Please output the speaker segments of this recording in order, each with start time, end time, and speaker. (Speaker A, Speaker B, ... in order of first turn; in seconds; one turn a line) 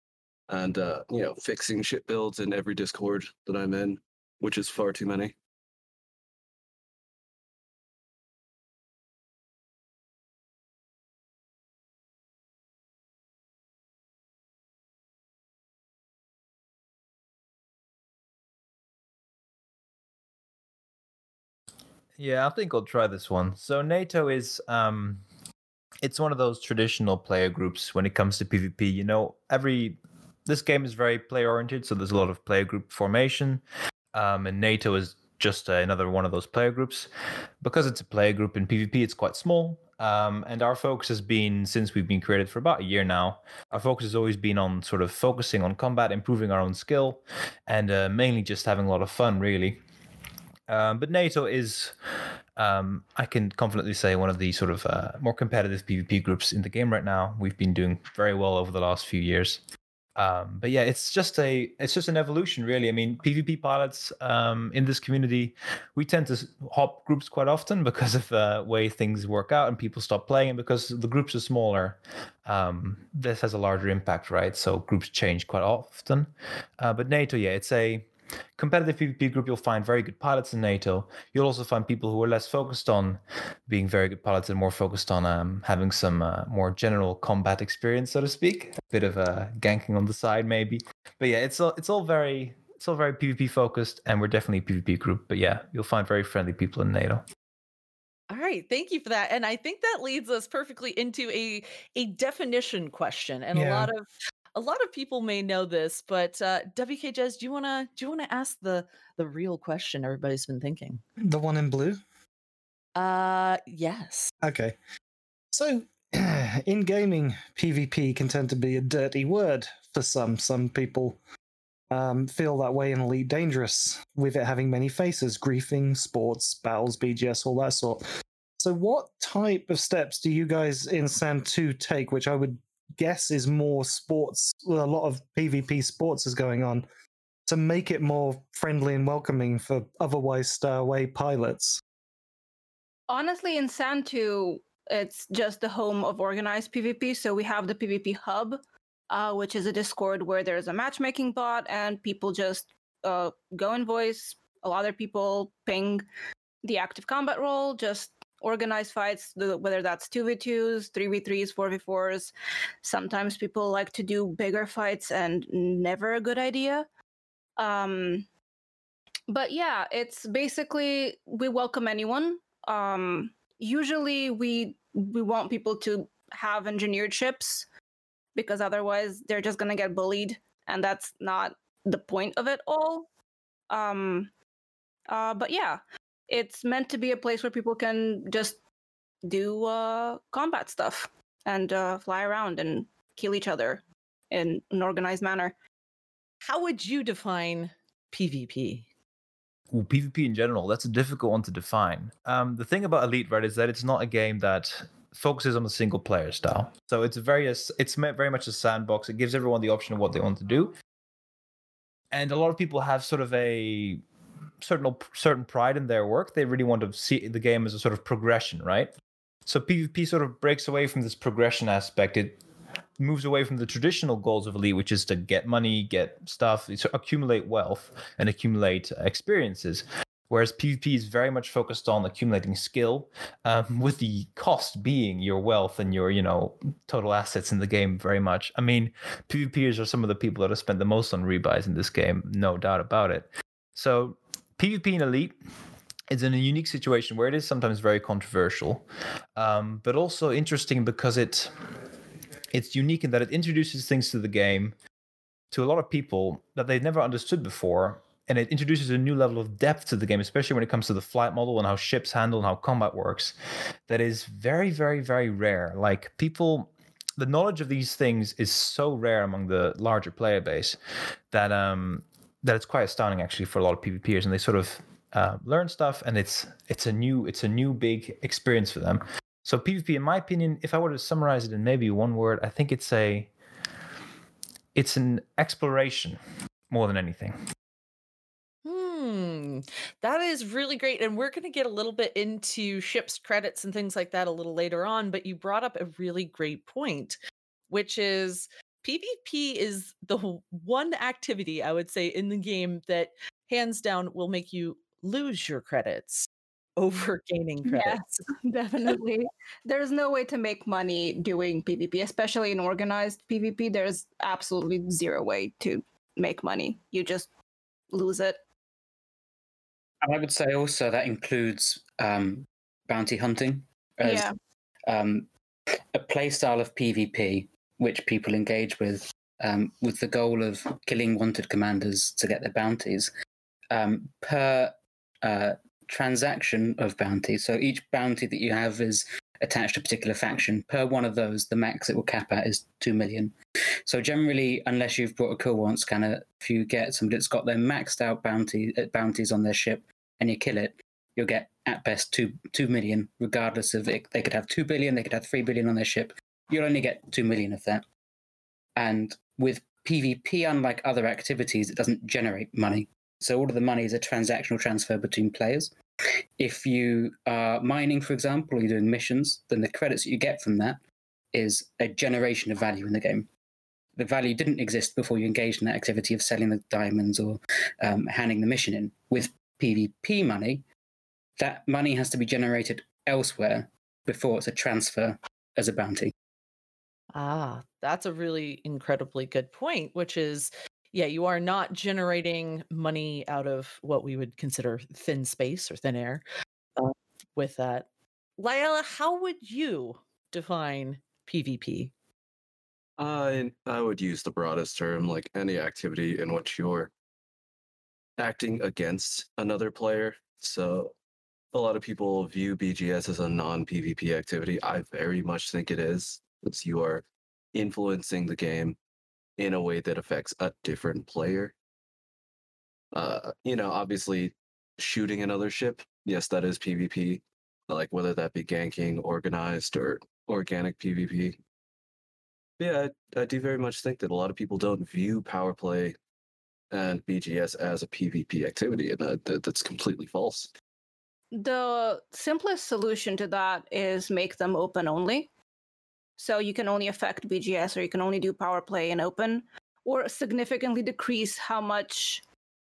Speaker A: 0.5-5.3
Speaker B: 22.2-25.2
Speaker B: 26.0-33.6
Speaker B: 34.1-37.1
Speaker B: 37.6-49.8
Speaker B: 50.7-51.9
Speaker B: 52.5-59.6
Speaker B: 60.1-97.2
Speaker C: 98.3-111.0
Speaker D: 103.5-103.9
Speaker D: 111.2-112.0
Speaker C: 113.0-114.3
Speaker D: 114.4-114.8
Speaker D: 115.5-121.2
Speaker D: 121.9-128.0
Speaker D: 128.6-136.9
Speaker D: 137.5-141.8
Speaker E: 143.1-156.0
Speaker E: 156.6-166.9
Speaker E: 167.6-168.2
Speaker E: 169.3-177.7
Speaker E: 178.3-183.1
Speaker E: 183.7-184.3
Speaker E: 185.1-188.6
Speaker E: 189.2-195.5
Speaker C: 196.4-198.9
Speaker B: 199.7-210.7
Speaker B: 212.1-214.0
Speaker B: 214.6-218.9
Speaker B: 219.4-222.4
Speaker B: 223.0-245.4
Speaker B: 246.1-248.8
Speaker B: 249.3-251.5
Speaker B: 252.5-254.7
Speaker B: 255.5-263.3
Speaker B: 263.9-270.8
Speaker B: 271.3-283.3
Speaker B: 284.7-286.2
Speaker B: 286.7-287.4
Speaker C: 288.6-297.2
Speaker C: 297.7-308.2
Speaker E: 307.7-317.3
Speaker E: 317.9-318.4
Speaker F: 320.0-324.3
Speaker E: 324.0-324.3
Speaker F: 324.9-325.3
Speaker F: 325.9-333.1
Speaker F: 333.7-343.3
Speaker F: 343.9-357.8
Speaker F: 358.8-365.7
Speaker F: 366.4-370.8
Speaker F: 371.3-373.3
Speaker F: 373.9-380.6
Speaker F: 381.4-386.1
Speaker C: 387.1-396.2
Speaker C: 396.8-397.9
Speaker C: 398.4-401.9
Speaker A: 403.0-406.9
Speaker A: 408.2-410.9
Speaker A: 411.5-418.8
Speaker A: 419.4-421.5
Speaker A: 422.9-431.4
Speaker A: 432.6-435.9
Speaker A: 436.7-440.5
Speaker E: 441.3-445.3
Speaker E: 446.2-452.2